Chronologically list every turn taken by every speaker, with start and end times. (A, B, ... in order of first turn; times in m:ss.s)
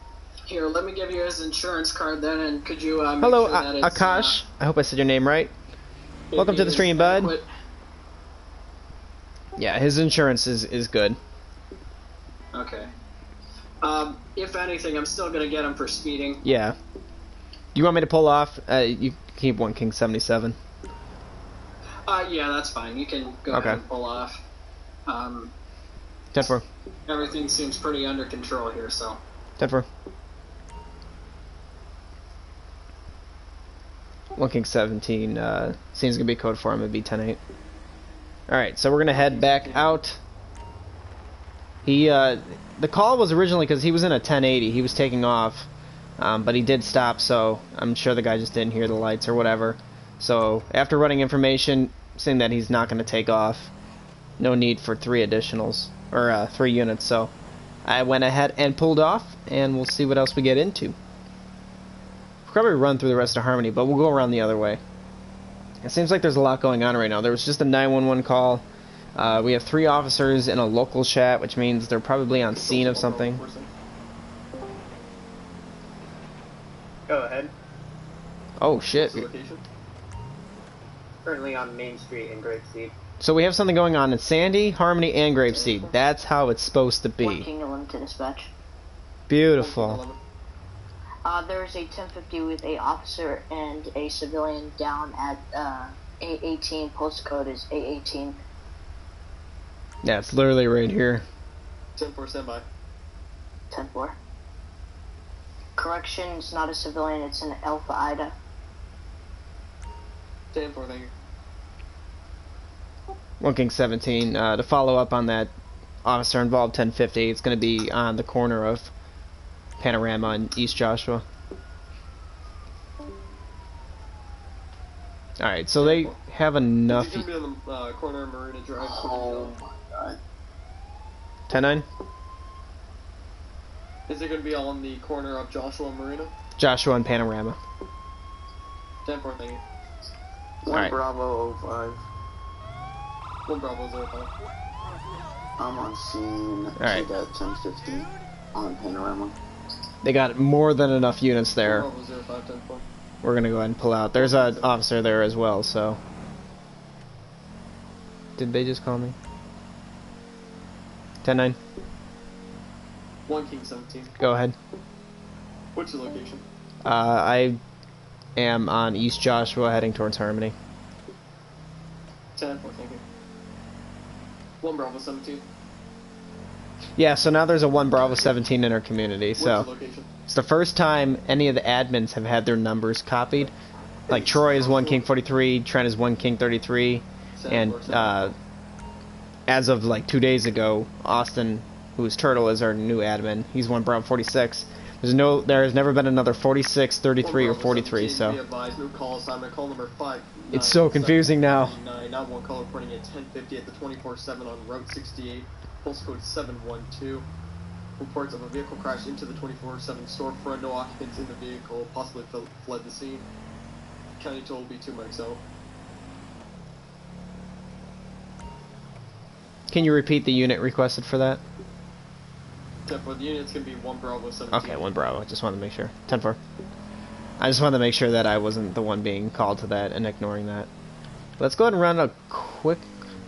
0:00.5-0:04.4 A
0:03.2-0:05.5 B
0:06.3-0:07.4 A
0:06.3-0:07.3 B
0:09.6-0:11.2 B
0:12.5-0:12.9 A
0:13.8-0:16.4 A
0:16.4-0:16.8 B
0:17.7-0:20.6 B
0:22.0-0:24.4 A
0:23.5-0:23.8 B
0:25.1-0:25.5 A
0:26.3-0:26.6 B
0:27.1-0:29.2 A
0:29.6-0:29.9 B
0:34.4-0:37.4 B
0:38.5-0:40.2 B
0:39.1-0:40.0 C
0:41.8-0:45.7 B
0:46.2-0:53.7 B
0:54.4-0:57.3 B
0:57.8-1:01.0 B
1:02.4-1:04.8 B
1:05.8-1:08.6 B
1:09.2-1:13.4 B
1:12.5-1:13.7 C
1:17.1-1:17.5 D
1:18.6-1:19.2 B
1:18.9-1:19.6 C
1:21.2-1:22.9 D
1:23.2-1:27.5 B
1:27.2-1:28.5 E
1:29.3-1:30.0 B
1:29.6-1:30.2 C
1:31.2-1:38.4 E
1:40.0-1:41.2 B
1:42.0-1:42.6 C
1:43.7-1:44.2 E
1:45.8-1:48.3 E
1:50.5-1:51.1 C
1:53.4-1:55.5 B
1:56.0-1:58.9 B
1:59.8-2:01.2 B
2:05.4-2:07.3 B
2:05.8-2:06.2 C
2:06.9-2:09.6 C
2:08.8-2:10.2 F
2:11.5-2:11.8 B
2:14.1-2:16.3 C
2:16.6-2:17.6 B
2:19.0-2:19.6 C
2:20.6-2:22.0 F
2:23.4-2:24.3 C
2:25.6-2:29.3 F
2:26.8-2:27.0 B
2:30.0-2:31.9 B
2:31.6-2:32.8 C
2:33.2-2:36.0 B
2:34.2-2:34.7 C
2:38.4-2:39.2 B
2:41.2-2:41.6 B
2:43.3-2:44.1 C
2:44.2-2:44.6 B
2:45.7-2:46.4 C
2:46.8-2:47.6 B
2:48.4-2:50.5 B
2:52.4-2:53.0 C
2:54.6-2:55.4 C
2:57.0-2:59.7 B
2:59.4-3:00.1 C
3:00.3-3:03.5 B
3:04.1-3:05.0 C
3:04.1-3:08.3 B
3:07.4-3:08.3 C
3:09.5-3:18.4 B
3:17.2-3:27.2 C
3:20.5-3:21.8 B
3:28.0-3:33.2 C
3:34.2-3:35.4 C
3:39.7-3:41.4 B
3:42.8-3:44.8 C
3:44.5-3:46.4 B
3:47.4-3:50.7 B
3:51.4-3:52.9 B